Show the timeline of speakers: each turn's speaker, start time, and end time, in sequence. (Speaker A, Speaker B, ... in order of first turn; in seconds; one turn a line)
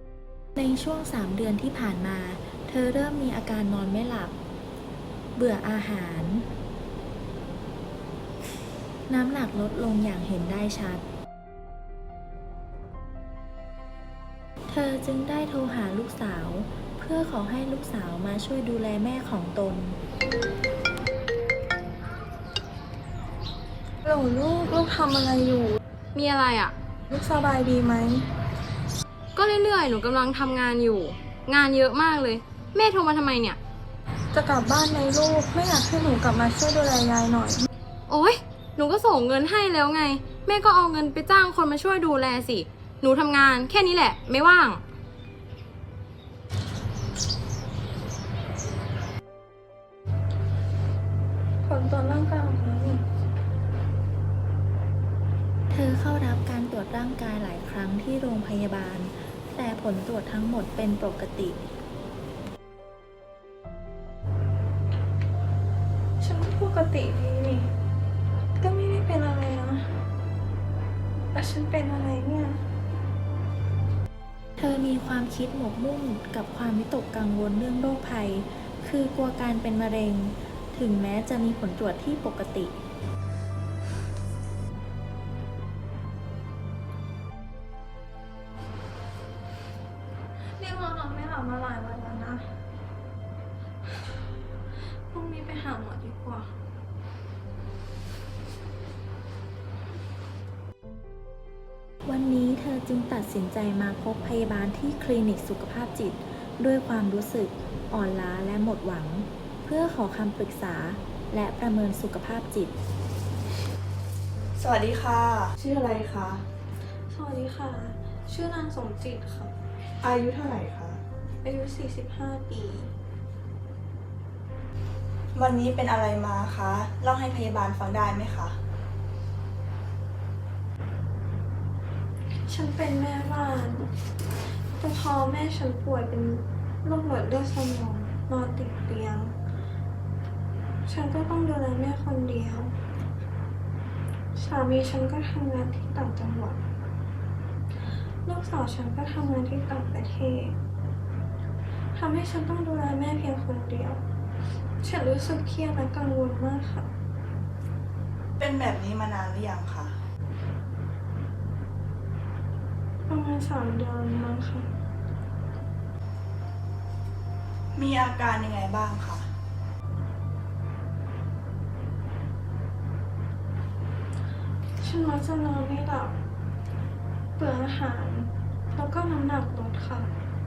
Speaker A: 0.6-4.3
Speaker A: 5.4-6.5
Speaker A: 9.1-11.0
Speaker A: 14.7-20.0
Speaker B: 24.0-25.8
Speaker C: 26.1-26.7
Speaker B: 27.1-28.3
Speaker C: 29.4-33.6
Speaker B: 34.3-37.7
Speaker C: 38.1-44.8
Speaker B: 51.6-53.0
Speaker A: 55.7-61.6
Speaker B: 66.2-67.7
Speaker B: 68.6-69.9
Speaker B: 71.3-72.6
Speaker A: 74.6-82.7
Speaker B: 90.6-92.5
Speaker B: 95.1-96.6
Speaker A: 102.1-112.8
Speaker D: 114.6-116.5
Speaker B: 117.1-119.5
Speaker D: 120.0-121.0
Speaker B: 121.4-122.9
Speaker D: 125.3-128.6
Speaker B: 132.5-133.9
Speaker B: 134.8-139.3
Speaker B: 140.8-142.8
Speaker B: 144.3-146.6
Speaker B: 148.2-150.6
Speaker B: 151.9-154.0
Speaker B: 154.8-156.9
Speaker D: 158.4-159.9
Speaker B: 163.1-164.7
Speaker D: 167.8-169.2
Speaker B: 174.8-176.2
Speaker B: 177.4-180.1